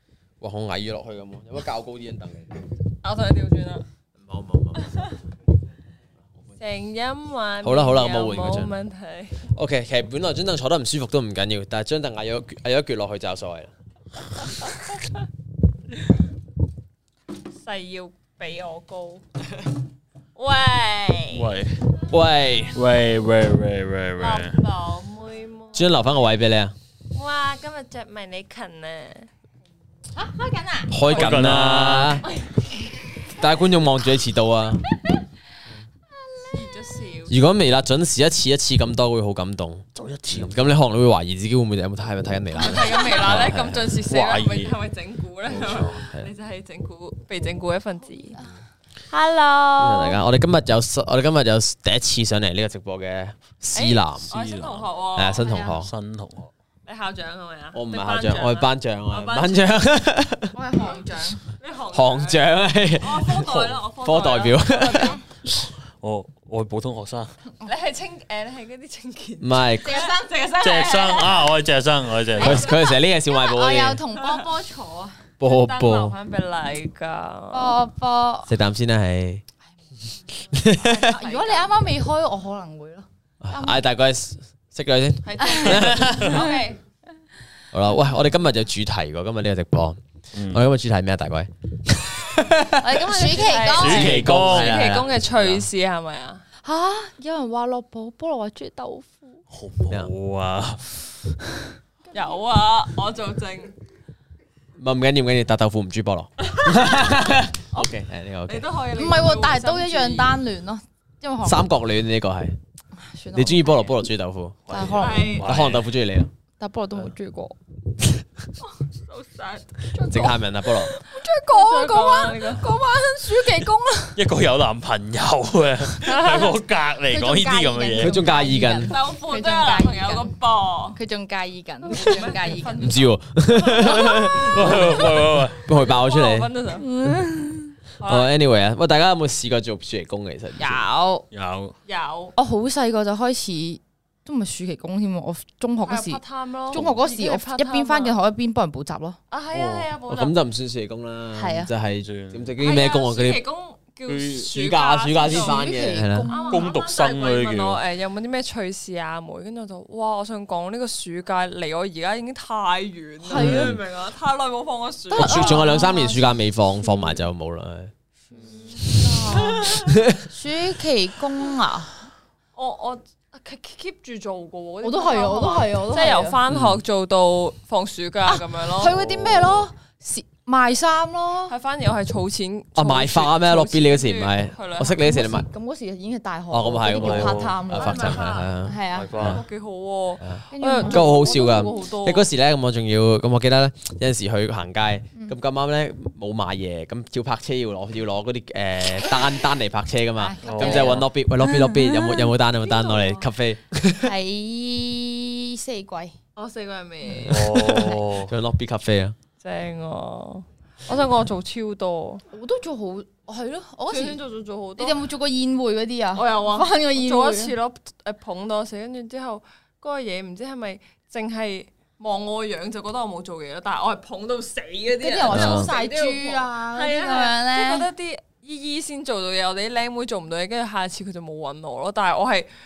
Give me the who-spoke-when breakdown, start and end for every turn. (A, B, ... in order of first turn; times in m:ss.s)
0:00.4-0:02.6 A
0:03.0-0:03.8 B
0:04.2-0:05.1 A
0:06.6-0:09.4 B
0:07.6-0:08.8 A
0:09.5-0:13.7 A
0:17.6-0:19.2 B
0:20.4-0:21.6 B
0:21.3-0:21.9 C
0:22.1-0:22.8 A
0:22.8-0:24.6 C
0:24.2-0:26.0 B
0:25.7-0:26.8 A
0:27.1-0:29.3 B
0:30.1-0:30.9 D
0:30.9-0:32.3 A
0:31.1-0:32.2 C
0:33.3-0:34.8 A
0:36.2-0:36.8 D
0:36.5-0:37.3 B
0:37.3-0:43.9 A
0:40.0-0:40.7 C
0:42.6-0:48.4 B
0:44.1-0:44.8 C
0:45.5-0:46.0 C
0:45.9-0:46.3 A
0:48.2-0:48.5 D
0:49.1-0:50.2 B
0:49.8-0:54.3 A
0:53.8-0:55.5 B
0:54.3-0:54.9 C
0:55.2-0:55.9 A
0:55.4-0:55.7 D
0:55.8-0:56.5 C
0:56.9-0:59.8 B
0:57.7-1:00.6 A
1:00.5-1:01.4 D
1:01.6-1:05.2 B
1:01.9-1:05.2 A
1:05.9-1:07.3 C
1:07.6-1:11.4 B
1:09.4-1:09.9 A
1:09.8-1:11.5 D
1:10.6-1:12.7 C
1:12.4-1:13.0 B
1:12.4-1:14.0 A
1:12.7-1:15.2 D
1:14.2-1:14.5 B
1:15.4-1:16.1 A
1:15.4-1:17.8 B
1:17.5-1:18.5 D
1:18.5-1:19.4 A
1:20.5-1:21.1 A
1:20.6-1:21.7 B
1:21.0-1:23.8 D
1:23.4-1:26.4 A
1:25.2-1:26.8 B
1:25.4-1:26.7 D
1:27.7-1:32.5 A
1:30.3-1:30.6 C
1:32.4-1:36.4 B
1:32.7-1:34.3 D
1:33.8-1:34.8 C
1:33.9-1:35.2 A
1:35.3-1:35.6 C
1:36.6-1:39.4 D
1:39.5-1:41.1 C
1:42.1-1:43.8 B
1:44.8-1:48.7 A
1:46.6-1:47.4 B
1:48.5-1:50.4 B
1:49.0-1:51.7 D
1:51.4-1:52.6 A
1:53.0-1:53.9 D
1:53.3-1:54.7 A
1:54.7-1:55.9 C
1:54.7-1:55.5 D
1:55.0-1:55.6 B
1:55.4-1:56.3 A
1:56.6-1:57.6 D
1:58.6-2:00.4 B
2:00.0-2:00.4 D
2:00.1-2:00.9 A
2:00.9-2:02.7 B
2:01.0-2:04.2 D
2:04.2-2:08.2 C
2:06.0-2:06.6 B
2:07.1-2:10.3 D
2:08.0-2:09.0 A
2:08.6-2:11.0 B
2:10.9-2:13.1 D
2:11.8-2:16.9 B
2:12.8-2:14.8 A
2:13.8-2:14.7 D
2:14.5-2:15.6 C
2:15.6-2:16.5 A
2:16.8-2:17.8 D
2:18.0-2:18.3 B
2:18.0-2:20.8 A
2:20.6-2:21.3 D
2:21.3-2:21.7 C
2:21.9-2:22.4 B
2:22.4-2:29.2 D
2:25.8-2:28.2 B
2:29.3-2:30.4 B
2:29.5-2:29.9 C
2:30.1-2:33.4 A
2:31.3-2:31.7 D
2:32.0-2:32.5 C
2:32.6-2:35.7 B
2:34.1-2:34.5 C
2:34.5-2:36.3 A
2:35.2-2:36.7 D
2:36.3-2:45.7 B
2:36.5-2:37.8 C
2:43.2-2:43.8 D
2:43.4-2:43.8 C
2:45.1-2:47.2 D
2:45.2-2:47.9 A
2:48.4-2:48.7 C
2:48.7-2:50.0 B
2:48.8-2:51.9 D
2:49.8-2:50.2 A
2:52.6-2:59.0 B
2:54.8-2:56.4 D
2:56.5-2:56.8 A
2:58.3-3:01.6 D
2:59.0-2:59.6 C
3:01.5-3:05.0 B
3:02.8-3:05.5 A
3:05.0-3:09.2 D
3:06.5-3:09.4 A
3:06.9-3:07.2 B
3:07.0-3:07.6 C
3:07.7-3:12.3 B
3:08.9-3:09.4 C
3:10.2-3:24.1 A
3:10.5-3:11.7 D
3:20.2-3:23.3 D
3:20.5-3:21.0 C
3:24.0-3:26.2 D
3:26.4-3:27.9 B
3:27.3-3:28.3 C
3:27.5-3:28.0 D
3:28.2-3:29.2 A
3:29.4-3:32.2 B
3:32.3-3:34.2 D
3:33.9-3:35.0 B
3:34.8-3:37.6 D
3:36.2-3:52.5 B
3:45.0-3:47.9 D
3:45.3-3:45.7 A